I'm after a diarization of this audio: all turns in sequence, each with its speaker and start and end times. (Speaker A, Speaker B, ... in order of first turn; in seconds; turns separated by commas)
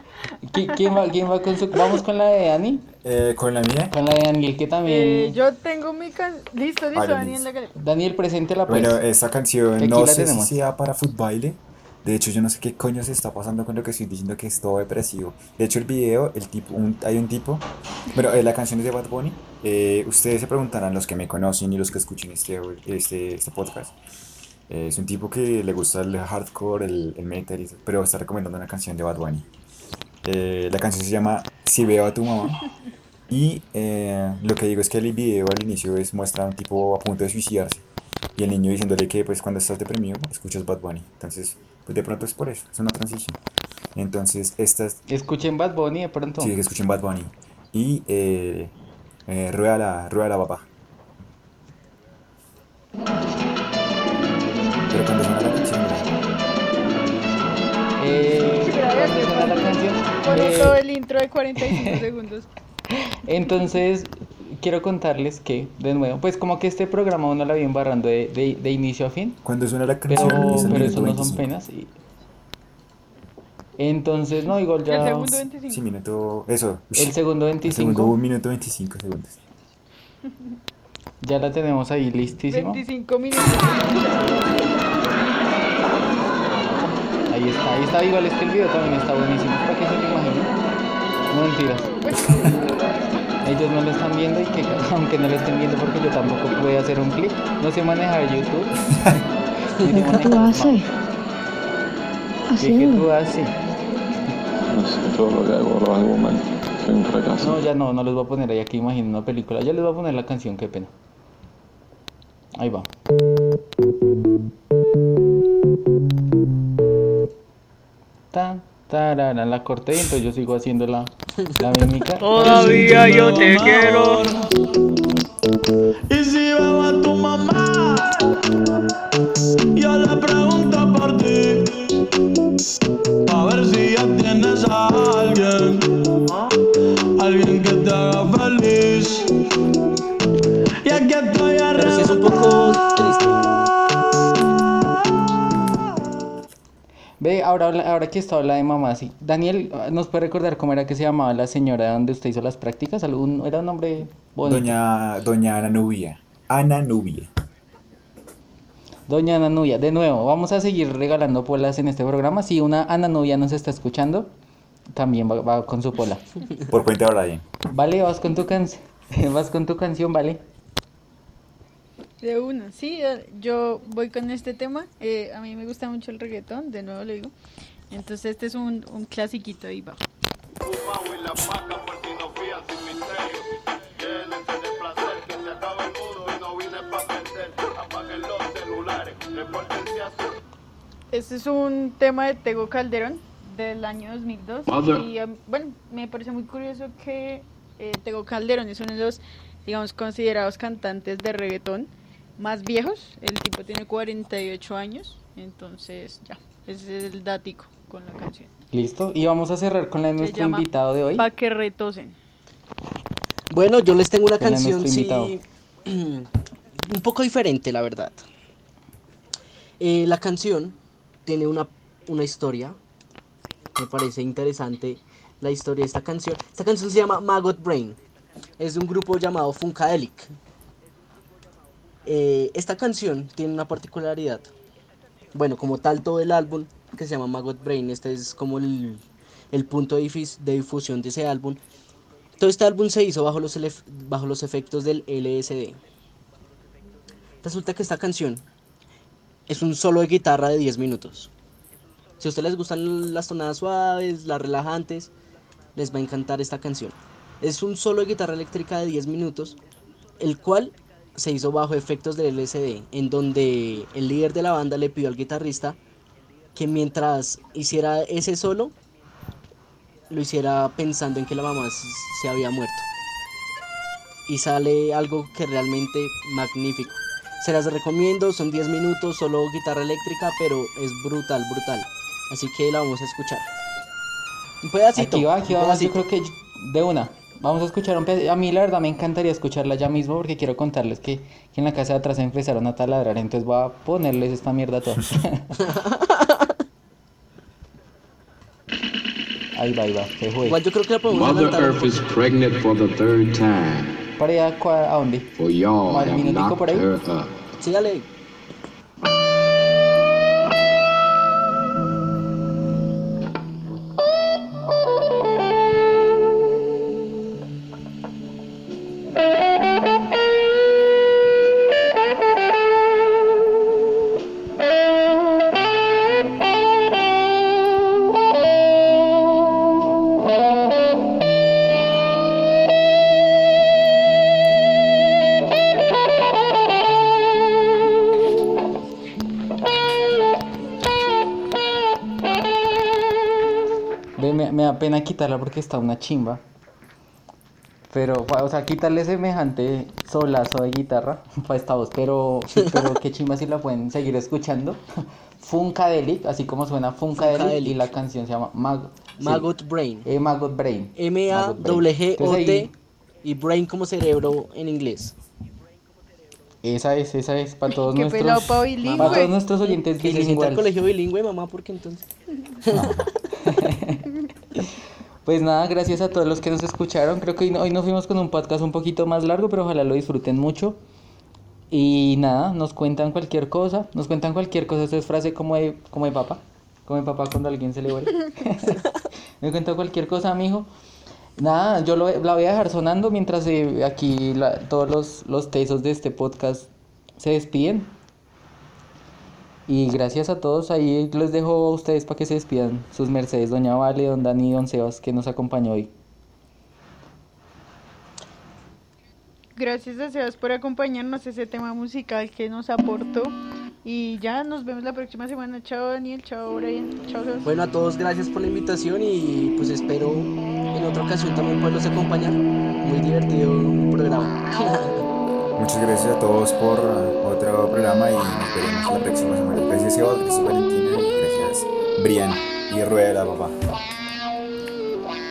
Speaker A: 0.5-2.9, Speaker B: 3.0-4.0, Speaker A: 3.9-5.4, Speaker C: 4.9-7.7, Speaker B: 6.9-7.5, Speaker A: 7.8-9.0, Speaker B: 8.7-23.9, Speaker A: 9.8-10.6, Speaker B: 24.7-29.5, Speaker B: 30.2-32.7, Speaker B: 33.3-37.8, Speaker B: 38.4-43.4, Speaker B: 44.0-45.0, Speaker A: 45.1-46.6, Speaker B: 46.4-48.7, Speaker B: 49.3-50.7, Speaker B: 54.9-56.1, Speaker A: 58.0-60.8, Speaker C: 58.6-62.5, Speaker A: 61.7-62.0, Speaker A: 63.0-69.4, Speaker B: 69.4-71.5, Speaker A: 70.1-71.9, Speaker A: 73.8-75.5, Speaker C: 74.9-75.8, Speaker B: 75.7-79.4, Speaker A: 77.0-78.2, Speaker A: 81.2-82.8, Speaker C: 82.5-84.7, Speaker A: 87.3-90.5, Speaker A: 91.3-91.9, Speaker C: 91.9-92.6, Speaker A: 93.4-99.0, Speaker A: 99.8-100.9, Speaker A: 102.6-103.5, Speaker D: 104.7-107.6, Speaker A: 107.4-110.9, Speaker A: 112.6-112.9, Speaker A: 118.3-122.7, Speaker C: 122.2-124.2, Speaker E: 122.3-124.5, Speaker E: 126.1-128.2, Speaker E: 129.8-131.8, Speaker E: 133.3-135.9, Speaker E: 137.2-139.3, Speaker E: 140.8-143.1, Speaker F: 141.8-143.4, Speaker A: 147.2-154.8, Speaker B: 154.4-157.3, Speaker A: 159.1-164.3, Speaker A: 164.9-166.2, Speaker B: 166.7-167.4, Speaker A: 167.7-170.4, Speaker C: 172.2-177.3, Speaker C: 177.9-180.0, Speaker C: 191.1-208.5, Speaker G: 194.7-195.1, Speaker A: 208.7-211.3, Speaker C: 210.2-212.2, Speaker F: 213.5-216.3, Speaker A: 214.4-215.3, Speaker F: 216.8-218.2, Speaker F: 219.8-222.8, Speaker F: 223.8-228.0, Speaker F: 228.6-230.3, Speaker F: 232.1-234.5, Speaker F: 235.3-241.6, Speaker F: 242.4-245.8, Speaker F: 247.4-248.4, Speaker F: 249.5-251.3, Speaker F: 252.2-255.1, Speaker F: 255.8-259.6, Speaker F: 260.2-265.8, Speaker F: 266.6-268.7, Speaker F: 270.1-272.9, Speaker F: 274.3-283.5, Speaker F: 284.6-286.0, Speaker A: 284.9-295.5, Speaker F: 295.6-296.5, Speaker A: 299.5-300.6, Speaker F: 300.5-302.1, Speaker G: 301.1-304.0, Speaker A: 304.2-305.3, Speaker G: 305.4-307.4, Speaker A: 305.8-306.9, Speaker F: 307.6-308.1, Speaker A: 344.2-346.4, Speaker A: 347.9-354.8, Speaker F: 352.6-352.9, Speaker A: 355.4-359.5, Speaker F: 357.2-357.9, Speaker F: 359.2-360.1, Speaker A: 360.1-362.7, Speaker F: 361.0-362.7, Speaker F: 363.2-365.1, Speaker A: 366.6-370.7, Speaker C: 367.7-369.4, Speaker F: 368.8-372.1, Speaker F: 372.6-373.1, Speaker B: 372.7-373.1, Speaker A: 373.4-374.7, Speaker A: 375.3-380.8, Speaker A: 381.7-388.8, Speaker A: 389.4-390.7, Speaker A: 391.4-397.9, Speaker A: 399.7-405.9, Speaker C: 409.6-417.5, Speaker F: 417.4-425.1, Speaker B: 425.6-433.6